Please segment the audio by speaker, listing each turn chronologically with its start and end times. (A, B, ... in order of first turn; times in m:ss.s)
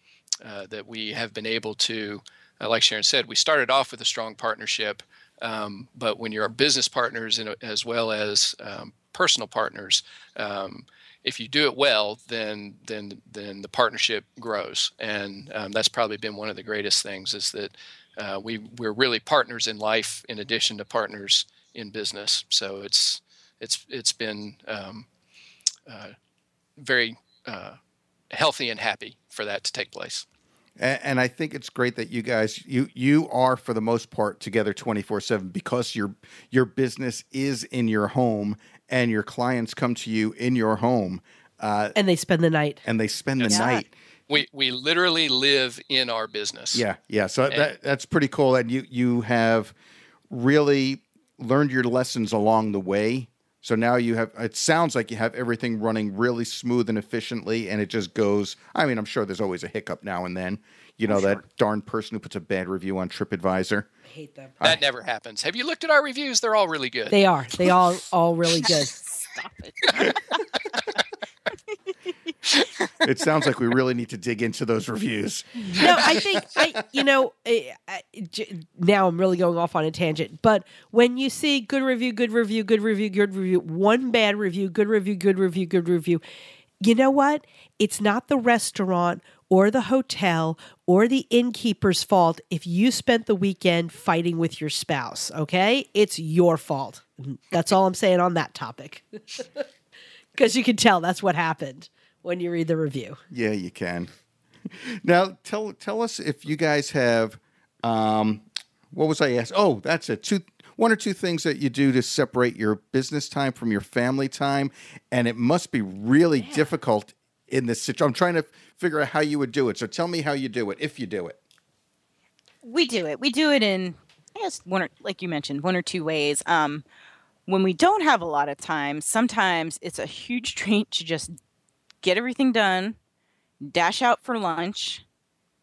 0:00.4-0:25.0 A
0:25.9-0:26.1 A
0:26.8-0:27.8 A
0:28.3-0:30.2 A
0:30.8-0:42.0 B
0:41.9-0:42.8 C
0:42.8-0:43.9 B
0:43.4-0:43.7 A
0:43.5-0:43.8 D
0:44.3-0:46.8 A
0:46.7-0:49.7 B
0:50.3-1:03.9 B
1:04.1-1:04.5 C
1:04.6-1:07.2 A
1:07.1-1:09.0 C
1:09.1-1:10.2 D
1:13.0-1:16.4 B
1:15.8-1:26.2 C
1:26.8-1:39.4 C
1:40.4-1:43.2 C
1:43.3-1:44.1 B
1:44.6-2:01.4 B
2:02.6-2:06.8 D
2:07.5-2:11.4 D
2:12.0-2:13.0 D
2:13.6-2:15.0 D